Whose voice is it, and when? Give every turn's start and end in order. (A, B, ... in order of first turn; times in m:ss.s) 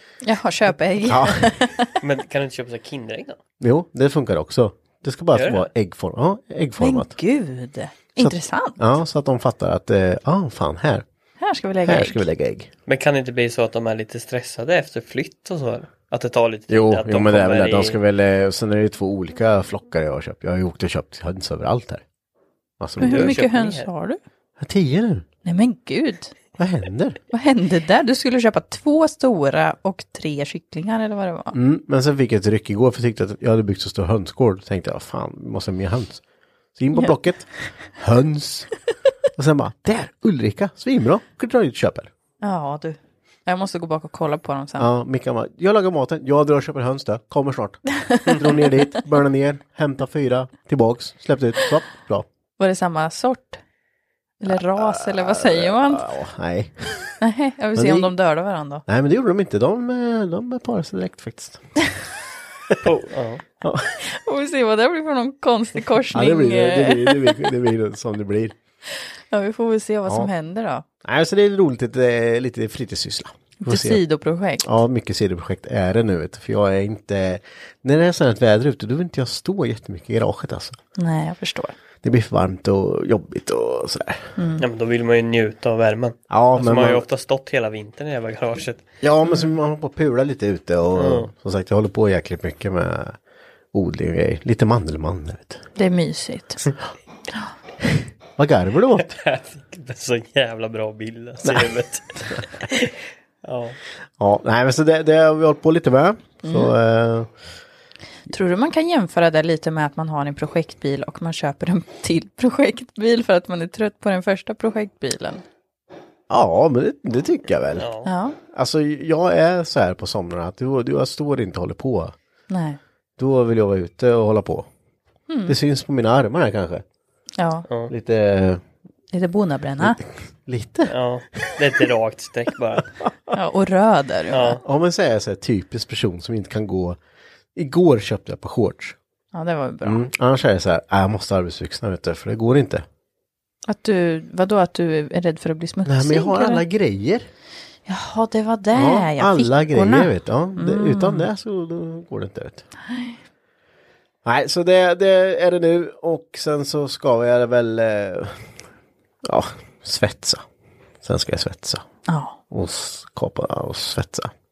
0:00.2-0:02.0 A
0:01.0-0:01.5 B
0:02.0-0:03.4 C
0:03.6-0:07.1 B
0:05.3-0:05.7 C
0:06.8-0:08.8 A
0:08.2-0:11.0 B
0:11.4-0:12.2 A
0:11.8-0:12.7 B
0:12.9-0:18.0 C
0:16.7-0:22.0 B
0:22.8-0:23.4 B
0:23.0-0:23.9 C
0:23.0-0:24.2 A
0:24.6-0:25.2 B
0:25.4-0:26.3 A
0:26.6-0:27.2 B
0:27.3-0:31.6 A
0:31.5-0:36.2 B
0:36.8-0:38.7 B
0:39.4-0:42.1 B
0:42.4-0:44.9 A
0:44.8-0:52.2 B
0:48.0-0:48.6 A
0:52.6-0:53.6 A
0:54.4-0:56.1 A
0:54.5-0:57.2 B
0:57.2-0:58.8 A
0:57.8-0:58.1 B
0:58.9-1:01.7 B
1:02.8-1:03.4 C
1:03.6-1:04.0 B
1:04.0-1:07.5 A
1:06.1-1:08.6 B
1:09.0-1:10.8 A
1:11.0-1:14.0 B
1:13.6-1:14.7 A
1:14.6-1:20.8 B
1:21.0-1:21.8 A
1:22.0-1:24.3 B
1:24.4-1:24.6 A
1:24.6-1:28.8 C
1:26.3-1:27.0 B
1:29.0-1:33.2 B
1:31.0-1:31.3 C
1:33.7-1:35.6 B
1:35.8-1:36.7 A
1:38.0-1:39.2 B
1:39.0-1:43.8 C
1:41.4-1:41.8 B
1:44.2-1:47.3 B
1:46.4-1:46.7 A
1:48.3-1:55.4 A
1:56.3-1:57.9 B
1:57.8-1:58.1 C
1:58.0-1:58.4 A
1:58.5-2:02.1 B
2:02.5-2:02.8 A
2:03.2-2:04.7 B
2:05.3-2:05.6 A
2:05.5-2:06.8 B
2:07.4-2:07.6 A
2:07.9-2:08.6 B
2:09.1-2:10.0 A
2:09.8-2:11.8 B
2:10.9-2:12.9 C
2:13.3-2:14.6 A
2:14.3-2:14.6 C
2:14.6-2:17.0 B
2:17.6-2:19.0 B
2:19.3-2:20.0 A
2:19.8-2:22.8 B
2:23.7-2:26.6 A
2:25.8-2:27.3 B
2:27.9-2:31.3 A
2:28.7-2:32.6 B
2:32.8-2:33.2 A
2:34.2-2:38.5 B
2:39.2-2:40.4 B
2:41.0-2:41.8 B
2:42.1-2:42.4 A
2:42.5-2:44.3 B